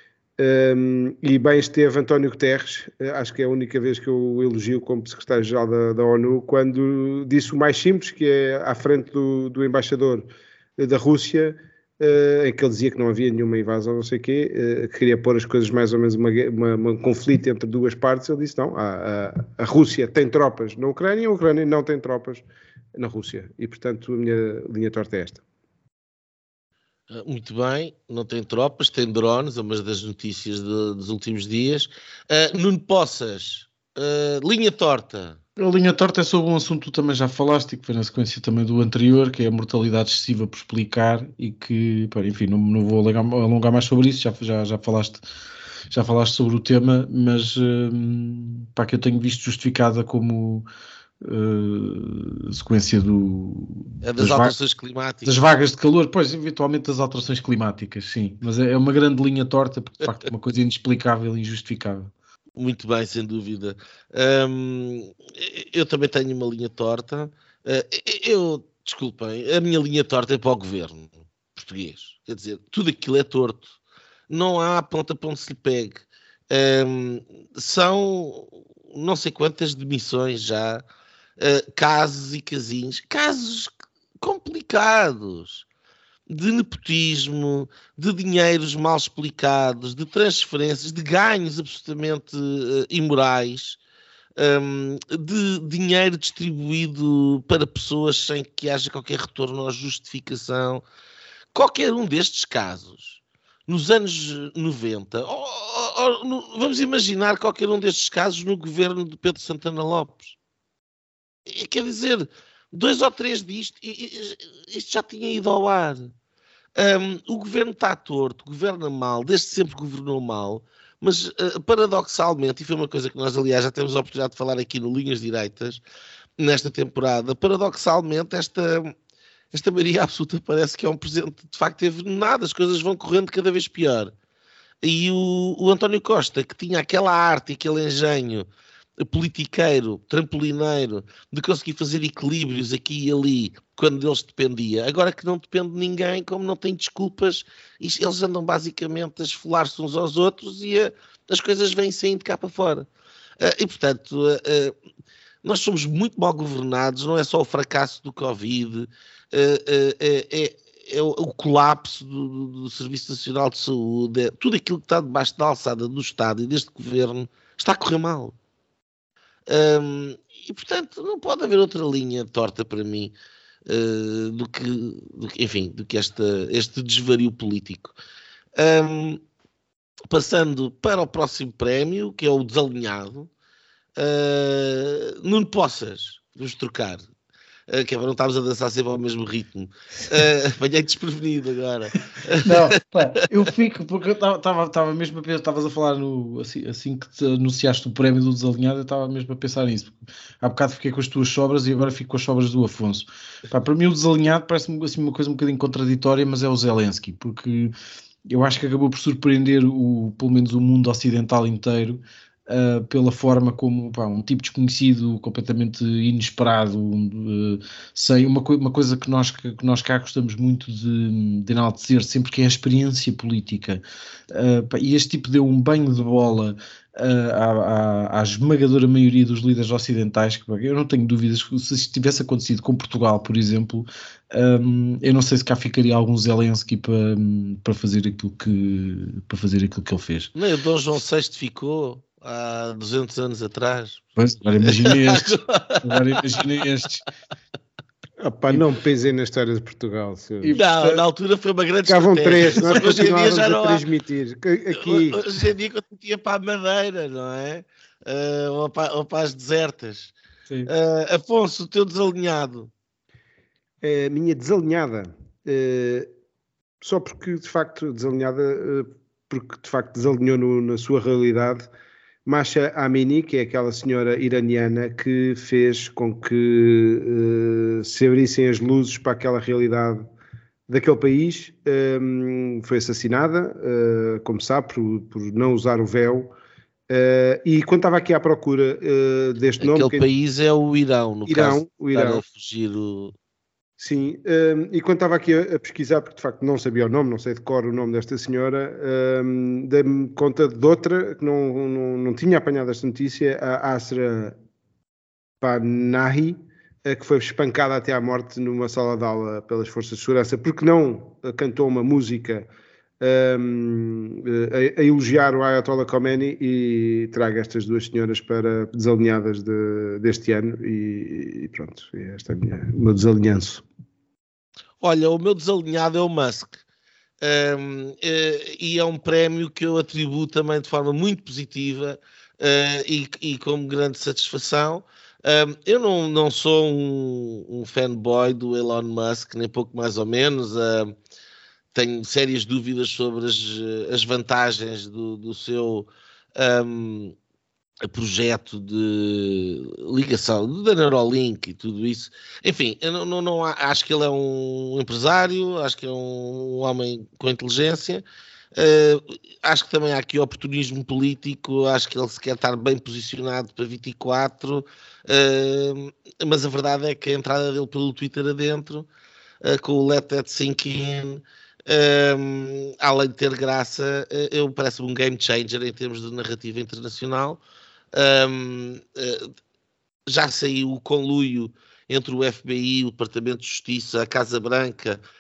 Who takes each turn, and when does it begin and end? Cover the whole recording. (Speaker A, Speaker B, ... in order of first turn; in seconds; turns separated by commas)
Speaker A: 0.4-10.3, Speaker A: 10.8-22.4, Speaker A: 23.0-25.4, Speaker B: 27.1-35.4, Speaker C: 35.6-45.2, Speaker C: 45.9-50.7, Speaker C: 51.2-54.5, Speaker B: 54.0-55.4, Speaker C: 55.2-62.1, Speaker B: 62.6-73.8, Speaker B: 74.3-80.8, Speaker B: 81.4-85.7, Speaker B: 86.3-93.8, Speaker B: 94.4-100.8, Speaker B: 101.5-110.4, Speaker B: 111.5-116.1, Speaker B: 116.8-125.8, Speaker B: 126.4-128.9, Speaker B: 129.5-134.1, Speaker B: 134.8-138.5, Speaker B: 139.0-152.9, Speaker B: 153.4-154.8, Speaker B: 155.4-168.3, Speaker B: 169.5-173.1, Speaker B: 173.7-178.0, Speaker B: 178.6-179.2, Speaker B: 180.1-183.3, Speaker B: 184.0-187.1, Speaker B: 187.7-192.6, Speaker C: 192.4-207.7, Speaker C: 208.3-240.3, Speaker B: 240.3-244.0, Speaker C: 244.2-247.0, Speaker B: 244.6-246.4, Speaker A: 248.2-250.6, Speaker C: 250.4-251.0, Speaker B: 250.5-253.8, Speaker A: 251.9-255.2, Speaker B: 254.7-260.1, Speaker B: 260.7-262.7, Speaker A: 263.8-266.1, Speaker A: 266.8-271.7, Speaker A: 272.3-280.0, Speaker A: 280.7-286.3, Speaker A: 286.9-290.1, Speaker B: 289.6-293.1, Speaker A: 291.3-292.2, Speaker A: 293.8-304.3, Speaker A: 305.4-312.5, Speaker A: 313.0-323.6, Speaker B: 324.8-326.6, Speaker B: 327.2-340.9, Speaker B: 341.7-347.1, Speaker B: 347.9-358.0, Speaker B: 358.6-368.9, Speaker B: 369.4-377.4, Speaker B: 377.9-379.3, Speaker B: 380.1-385.0